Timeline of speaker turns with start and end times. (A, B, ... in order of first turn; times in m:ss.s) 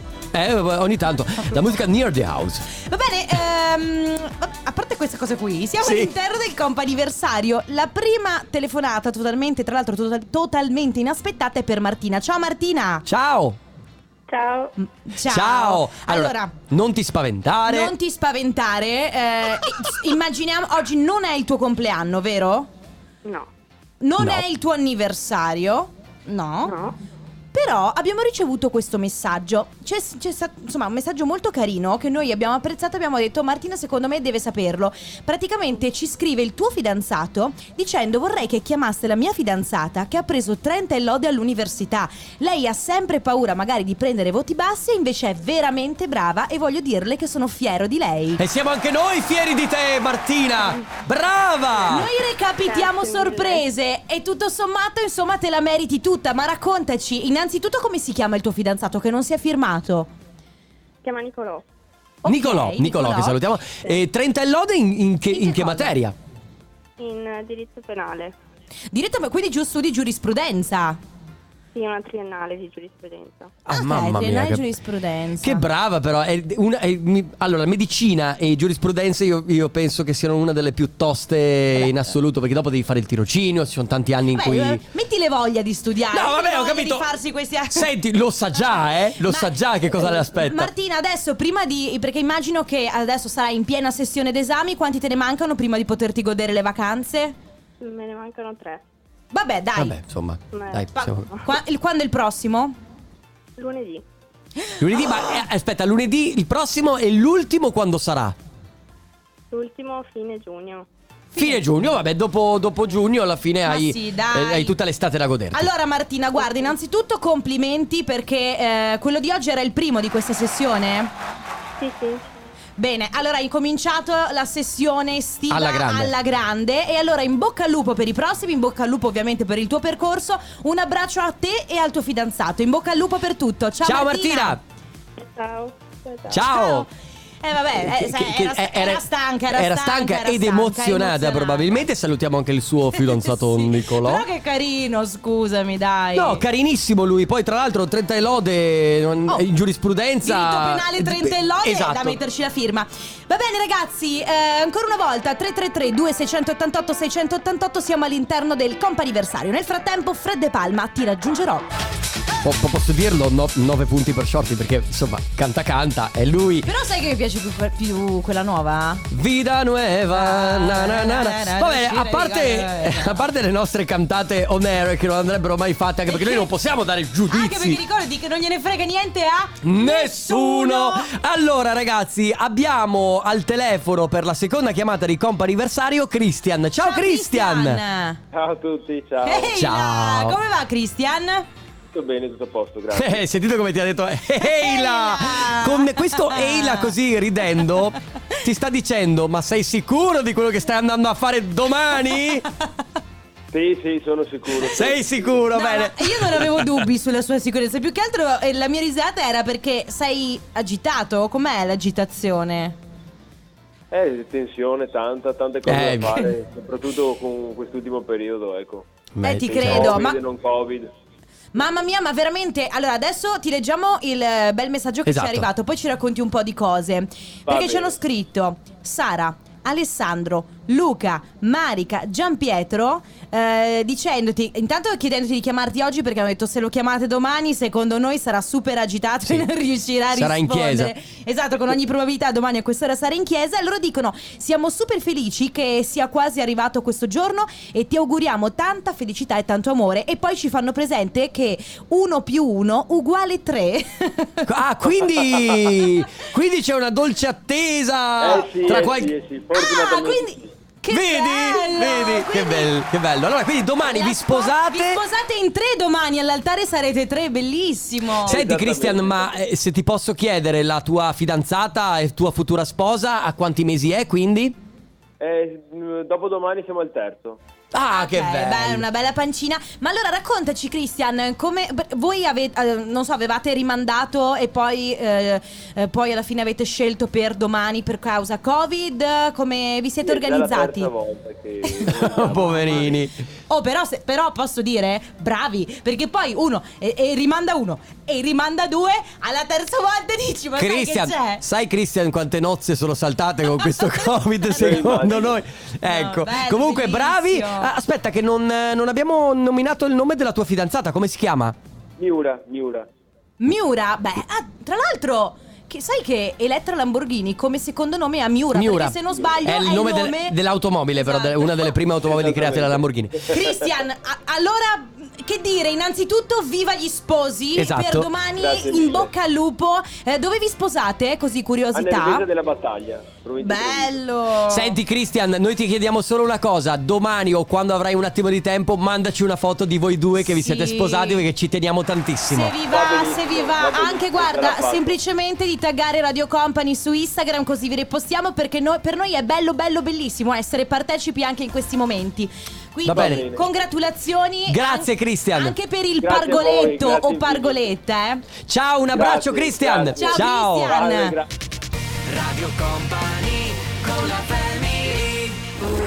0:00.3-0:02.6 A
0:02.8-0:13.0 B
0:05.8-0:06.1 A
0:13.0-0:13.6 A
0:14.3-0:14.7 C
0:15.0-0:16.5 B
0:15.3-0:17.9 A
0:17.7-0:22.7 B
0:23.2-0:23.5 C
0:24.0-0:26.8 B
0:26.6-0:27.0 C
0:27.5-0:48.4 B
0:48.4-0:52.1 A
0:51.9-1:00.1 B
0:52.7-0:53.6 C
1:01.0-1:01.6 C
1:02.2-1:03.4 B
1:02.2-1:06.1 A
1:05.3-1:05.9 B
1:07.0-1:08.3 C
1:08.9-1:11.0 B
1:11.7-1:13.5 C
1:13.6-1:14.6 A
1:13.7-1:15.6 B
1:15.4-1:24.8 A
1:24.3-1:27.9 B
1:26.1-1:27.1 A
1:27.7-1:30.7 A
1:29.2-1:37.4 B
1:37.8-1:38.8 C
1:39.3-1:40.0 B
1:39.8-1:41.3 A
1:40.5-1:41.4 C
1:40.9-1:42.7 B
1:43.6-1:44.0 C
1:44.8-1:48.4 A
1:49.5-1:50.9 C
1:51.3-1:51.6 B
1:51.4-1:55.7 A
1:53.6-1:54.7 B
1:55.5-2:01.1 B
2:01.8-2:02.2 C
2:02.8-2:14.6 B
2:05.5-2:06.1 A
2:13.8-2:14.6 A
2:15.2-2:16.4 C
2:16.3-2:16.9 A
2:16.3-2:16.9 B
2:17.4-2:21.8 B
2:17.8-2:24.2 A
2:23.0-2:26.4 B
2:26.1-2:32.2 A
2:30.2-2:41.7 B
2:42.4-2:46.7 A
2:46.6-2:49.0 B
2:49.1-2:57.8 A
2:50.1-2:53.2 B
2:56.1-2:56.5 B
2:57.3-3:01.1 B
2:59.6-3:07.8 A
3:06.8-3:08.2 B
3:08.3-3:09.5 D
3:09.2-3:11.5 B
3:09.5-3:10.4 A
3:11.9-3:13.2 D
3:12.9-3:22.4 A
3:14.4-3:16.9 B
3:23.5-3:25.4 D
3:24.7-3:26.6 A
3:25.5-3:32.8 B
3:33.9-3:38.8 D
3:35.6-3:36.3 A
3:39.2-3:40.0 A
3:39.2-3:40.2 B
3:39.5-3:40.9 D
3:41.5-4:14.5 B
3:45.0-3:45.5 A
3:47.5-3:47.9 D
4:00.1-4:00.9 A
4:14.4-4:19.1 A
4:18.2-4:20.5 D
4:19.5-4:22.7 B
4:20.9-4:25.0 A
4:23.8-4:28.4 B
4:28.2-4:29.3 D
4:28.2-4:34.6 A
4:35.2-4:37.4 D
4:37.7-4:38.8 A
4:37.9-4:50.9 B
4:50.0-4:53.0 D
4:51.6-4:52.4 B
4:51.8-4:53.2 A
4:53.5-5:01.4 B
5:00.6-5:11.5 A
5:03.6-5:05.2 B
5:04.5-5:05.4 D
5:05.8-5:07.7 B
5:12.0-5:12.9 D
5:13.4-5:20.4 B
5:18.5-5:23.2 A
5:21.0-5:21.8 B
5:22.0-5:23.4 D
5:23.3-5:32.2 B
5:27.6-5:28.1 A
5:28.4-5:29.1 D
5:31.7-5:34.0 D
5:33.4-5:34.7 B
5:34.5-5:42.5 A
5:40.2-5:41.2 B
5:42.3-5:58.2 B
5:42.7-5:45.0 D
5:52.8-5:53.3 A
5:52.9-5:53.4 D
5:54.5-5:55.5 A
5:56.0-5:57.7 D
5:58.5-6:00.8 A
5:58.9-6:01.2 D
6:00.0-6:01.2 B
6:02.1-6:05.3 A